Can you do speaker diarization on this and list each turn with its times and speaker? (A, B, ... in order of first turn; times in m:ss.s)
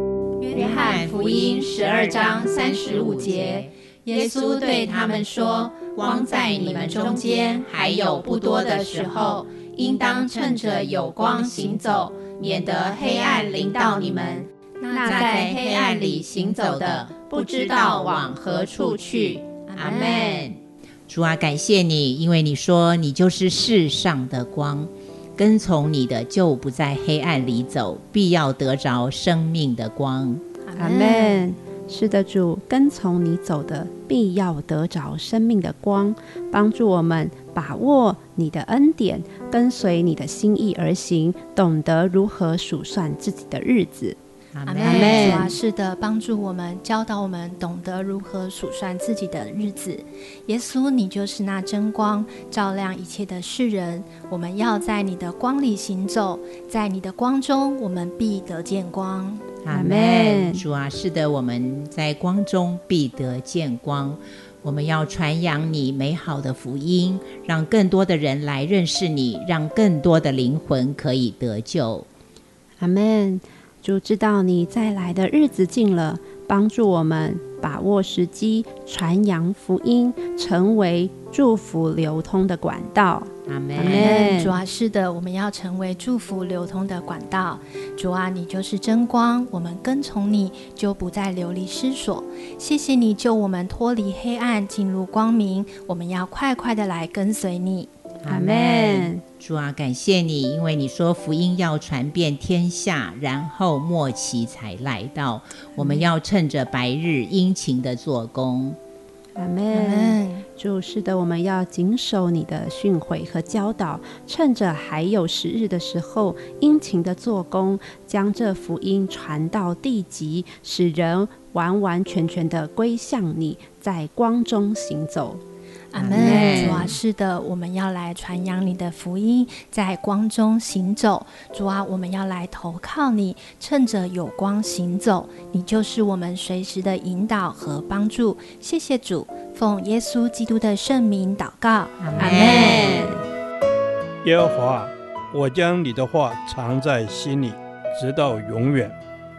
0:00.4-0:20.5 A
0:00.5-0:11.7 B
0:13.3-0:14.3 B
0:14.8-0:15.2 C
0:14.9-0:18.4 B
0:19.7-0:20.4 C
0:19.7-0:30.4 B
0:30.6-0:31.5 C
0:30.7-0:44.2 D
0:44.5-0:45.5 B
0:44.6-0:59.4 C
0:44.9-0:45.5 D
0:59.6-1:12.1 B
0:59.7-1:00.6 D
1:12.8-1:24.6 D
1:23.5-1:24.3 B
1:23.8-1:37.9 C
1:38.2-1:48.8 B
1:38.2-1:39.2 D
1:49.4-2:05.4 D
1:49.7-1:50.4 C
2:05.9-2:22.8 C
2:06.0-2:07.0 B
2:06.2-2:06.9 D
2:22.0-2:23.0 B
2:22.2-2:23.2 D
2:24.2-2:29.0 E